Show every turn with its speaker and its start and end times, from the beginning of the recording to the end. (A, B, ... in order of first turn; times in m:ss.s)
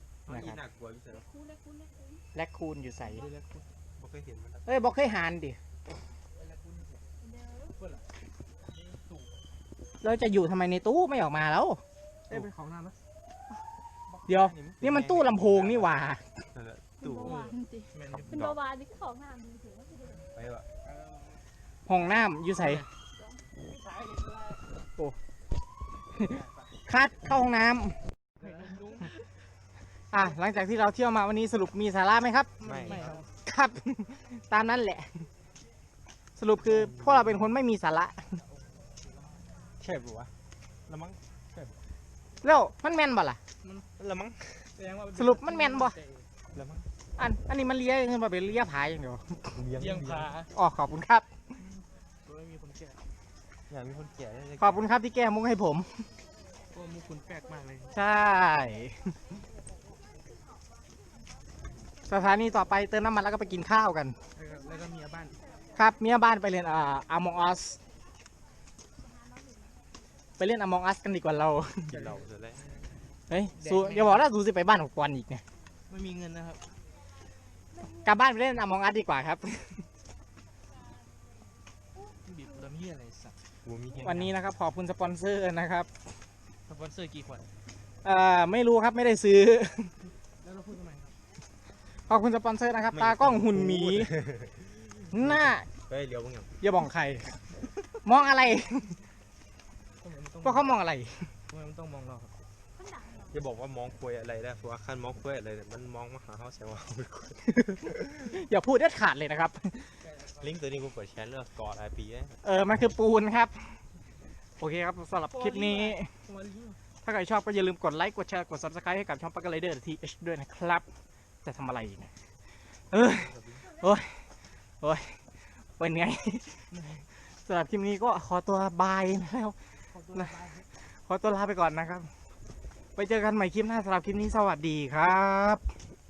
0:00.3-0:01.3 A
0:00.3-0:00.6 B
0:01.1-0:02.2 C
0:02.3-0:03.2 B
0:03.0-0:03.7 D
0:04.0-0:04.7 A
0:04.6-0:05.6 B
0:06.3-0:07.1 D
0:07.2-0:07.8 C
0:07.8-0:08.0 D
0:08.6-0:09.4 D
0:10.0-0:12.5 B
0:12.3-0:13.0 D
0:14.1-0:14.5 D
0:14.3-0:16.2 B
0:14.4-0:17.5 A
0:17.0-0:20.3 C
0:17.9-0:18.4 D
0:18.1-0:18.6 A
0:20.3-0:20.6 A
0:20.8-0:21.4 D
0:21.9-0:22.9 B
0:23.1-0:23.4 C
0:23.6-0:24.6 D
0:26.2-0:26.5 D
0:26.2-0:28.0 B
0:28.4-0:29.1 D
0:30.1-0:32.5 B
0:32.6-0:33.2 A
0:32.6-0:33.3 D
0:33.4-0:35.3 B
0:36.4-0:38.4 B
0:36.6-0:37.5 A
0:38.4-0:39.6 D
0:39.8-0:40.3 A
0:40.9-0:41.8 A
0:42.4-0:43.4 B
0:43.6-0:43.9 D
0:44.0-0:44.7 A
0:44.7-0:46.3 D
0:45.1-0:46.0 B
0:46.5-0:46.9 A
0:47.2-0:49.6 B
0:49.5-0:50.4 A
0:49.8-0:50.5 D
0:50.5-0:51.3 B
0:51.6-0:53.0 D
0:53.7-0:54.9 A
0:54.6-0:56.1 B
0:56.7-0:57.9 D
0:57.8-0:58.6 C
0:57.9-0:59.2 B
0:59.6-1:00.8 C
1:02.1-1:04.2 B
1:04.4-1:05.4 D
1:04.4-1:05.9 C
1:05.7-1:07.8 B
1:09.0-1:09.8 C
1:10.4-1:12.0 B
1:11.9-1:12.6 A
1:11.9-1:12.9 D
1:13.3-1:15.4 B
1:13.6-1:14.3 D
1:15.9-1:16.7 D
1:17.8-1:18.1 C
1:18.0-1:19.9 B
1:22.2-1:23.4 D
1:23.6-1:24.4 A
1:24.0-1:25.9 B
1:26.7-1:27.4 D
1:28.0-1:29.9 B
1:30.4-1:31.1 D
1:32.1-1:34.1 B
1:32.9-1:36.5 A
1:35.1-1:35.7 B
1:36.6-1:37.4 B
1:38.0-1:39.0 B
1:40.0-1:40.7 D
1:40.4-1:41.3 B
1:41.5-1:42.3 D
1:42.7-1:43.4 C
1:43.3-1:48.1 A
1:47.6-1:49.9 B
1:50.0-1:50.6 D
1:50.4-1:52.4 A
1:52.4-1:53.8 B
1:54.6-1:56.1 B
1:55.3-1:56.8 D
1:57.0-2:00.9 B
2:01.4-2:02.1 B
2:02.9-2:04.2 B
2:03.0-2:03.6 A
2:03.6-2:04.0 C
2:04.8-2:05.2 B
2:05.8-2:06.7 B
2:06.7-2:07.1 D
2:07.2-2:09.6 B
2:09.9-2:10.7 D
2:10.1-2:12.1 B
2:13.0-2:15.6 B